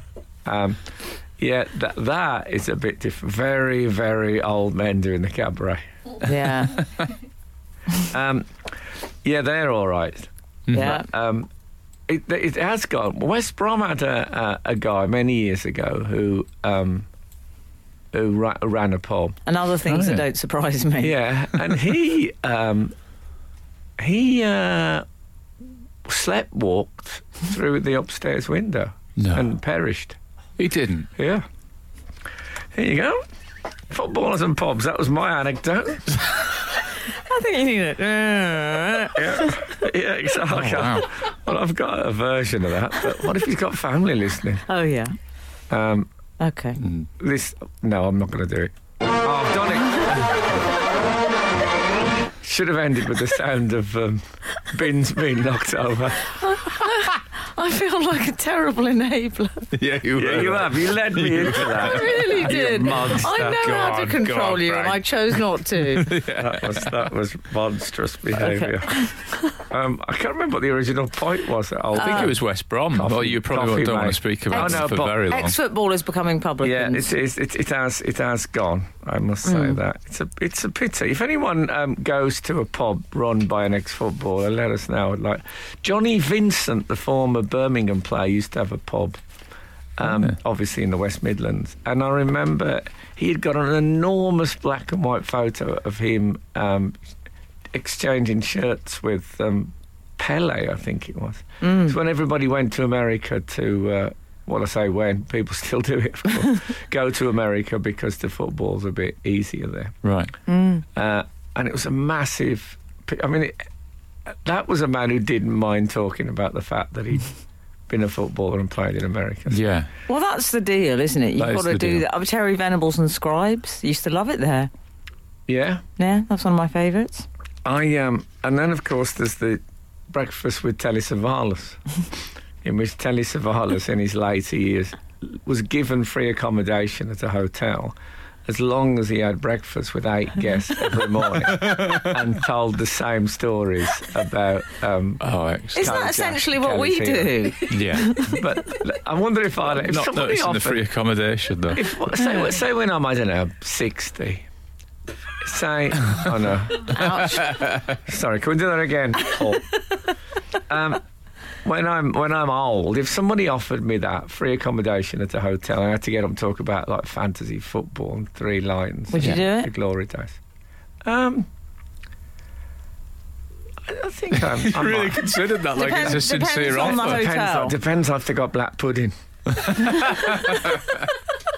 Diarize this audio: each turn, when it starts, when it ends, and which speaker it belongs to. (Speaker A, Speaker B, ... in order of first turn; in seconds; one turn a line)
Speaker A: 0.4-5.8
Speaker B: 6.2-6.8
Speaker A: 8.0-11.5
Speaker C: 10.7-11.0
Speaker B: 10.7-11.1
Speaker A: 12.1-17.1
Speaker A: 18.1-19.4
Speaker B: 19.4-21.2
Speaker C: 19.9-20.2
Speaker A: 21.0-22.9
Speaker A: 24.0-25.1
Speaker A: 26.0-30.2
Speaker C: 29.2-29.5
Speaker C: 30.6-31.1
Speaker A: 31.1-31.5
Speaker A: 32.7-33.2
Speaker A: 33.9-36.2
Speaker B: 37.1-39.7
Speaker A: 39.1-44.6
Speaker C: 40.5-41.1
Speaker B: 44.7-45.1
Speaker A: 45.7-46.1
Speaker B: 46.4-46.8
Speaker C: 46.8-47.1
Speaker A: 47.2-50.4
Speaker A: 52.4-56.4
Speaker B: 56.4-59.7
Speaker C: 59.7-66.9
Speaker A: 60.2-63.6
Speaker B: 61.8-66.1
Speaker A: 66.3-69.0
Speaker B: 68.4-69.5
Speaker A: 69.6-72.4
Speaker B: 71.9-72.3
Speaker C: 71.9-75.6
Speaker A: 72.9-75.2
Speaker B: 74.5-77.1
Speaker A: 76.6-89.2
Speaker B: 79.5-79.8
Speaker A: 90.0-97.0
Speaker A: 97.7-110.0
Speaker B: 101.6-102.0
Speaker C: 110.0-110.3
Speaker B: 110.5-110.8
Speaker A: 110.8-113.7
Speaker A: 114.3-117.3
Speaker A: 117.9-119.6
Speaker C: 119.5-119.9
Speaker B: 120.1-124.7
Speaker C: 121.4-122.0
Speaker A: 125.5-125.8
Speaker B: 126.0-127.2
Speaker A: 127.6-131.8
Speaker A: 132.6-145.2
Speaker C: 141.6-142.1
Speaker C: 145.2-145.9
Speaker A: 145.7-147.3
Speaker B: 145.7-148.4
Speaker C: 147.7-148.2
Speaker A: 148.2-150.8
Speaker C: 149.7-151.8
Speaker A: 151.7-154.4
Speaker A: 155.4-157.0
Speaker B: 156.9-157.6
Speaker C: 157.4-157.9
Speaker A: 158.0-159.7
Speaker A: 160.7-161.0
Speaker A: 161.6-170.4
Speaker B: 169.1-169.7
Speaker A: 171.0-171.5
Speaker A: 173.8-175.3
Speaker C: 174.4-177.2
Speaker B: 175.7-177.8
Speaker A: 176.7-179.1
Speaker C: 179.6-180.8